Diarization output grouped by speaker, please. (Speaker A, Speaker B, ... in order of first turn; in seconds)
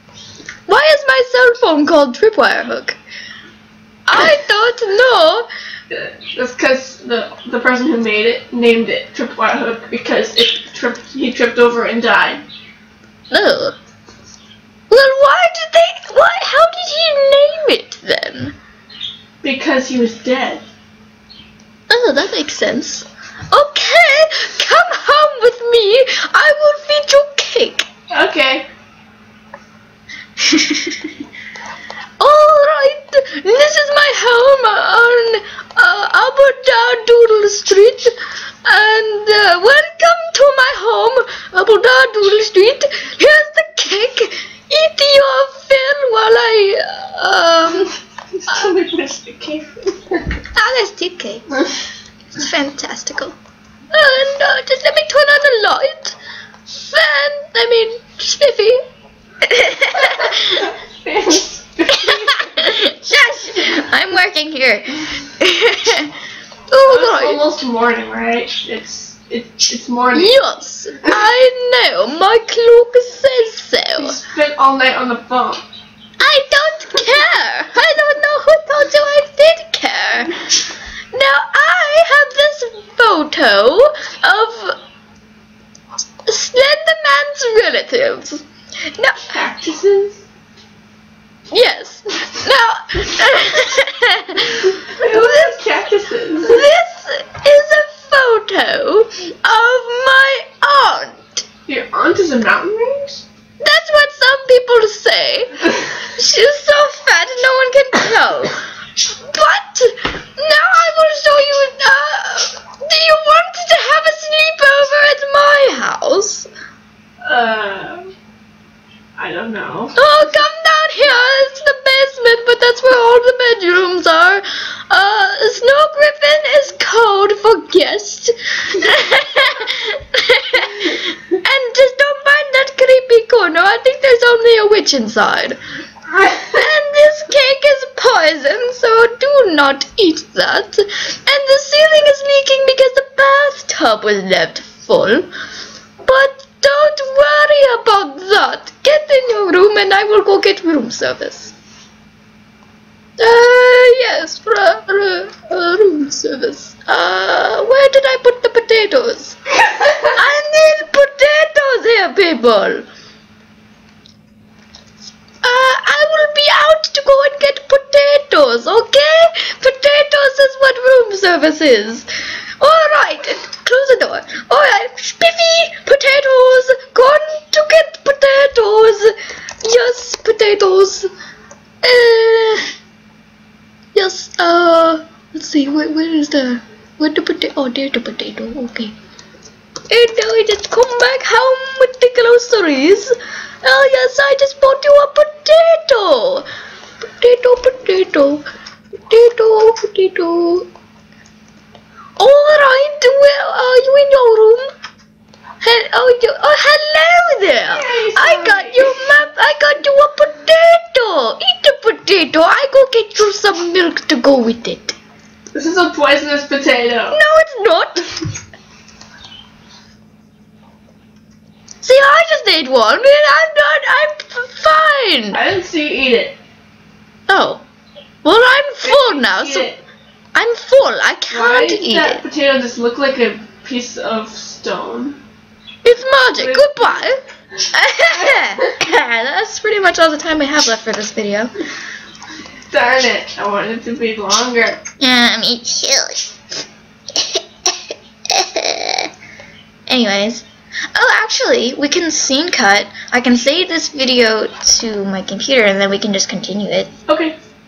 Speaker A: 0.7-3.0, 4.1-5.5, 13.3-13.8, 14.9-18.5, 21.9-27.9, 30.4-30.9, 32.2-38.1, 38.6-47.9, 48.5-48.7, 50.5-51.7, 52.3-53.3, 53.9-56.1, 56.7-58.8, 59.4-60.7, 61.9-66.1, 66.7-67.4, 70.1-74.2, 76.2-80.4, 81.1-84.8, 86.3-89.3, 91.5-95.6, 96.4-101.4, 103.6-108.6, 109.3-116.5, 120.0-135.6, 136.5-145.3, 146.0-151.5, 153.2-159.4, 160.0-162.8, 165.4-172.1, 172.6-181.1, 181.8-182.7, 183.9-188.9, 189.9-196.4, 197.0-198.4, 199.1-200.7, 202.2-204.7, 205.6-214.9, 217.1-218.1, 221.8-225.4, 227.3-227.6, 228.2-229.7, 230.3-232.2, 235.8-241.5, 245.0-246.3, 247.1-247.7, 248.3-249.1, 249.9-256.9
Speaker B: 5.9-12.4, 19.4-20.6, 28.1-28.7, 48.4-50.3, 60.0-62.7, 66.8-70.4, 74.0-75.7, 89.3-90.2, 94.7-96.7, 101.7-103.2, 117.2-118.1, 119.2-120.0, 207.7-209.0, 215.5-217.2, 225.3-226.4, 228.8-229.8, 231.3-235.2, 236.4-237.1, 238.1-238.7, 242.7-244.8, 257.1-257.4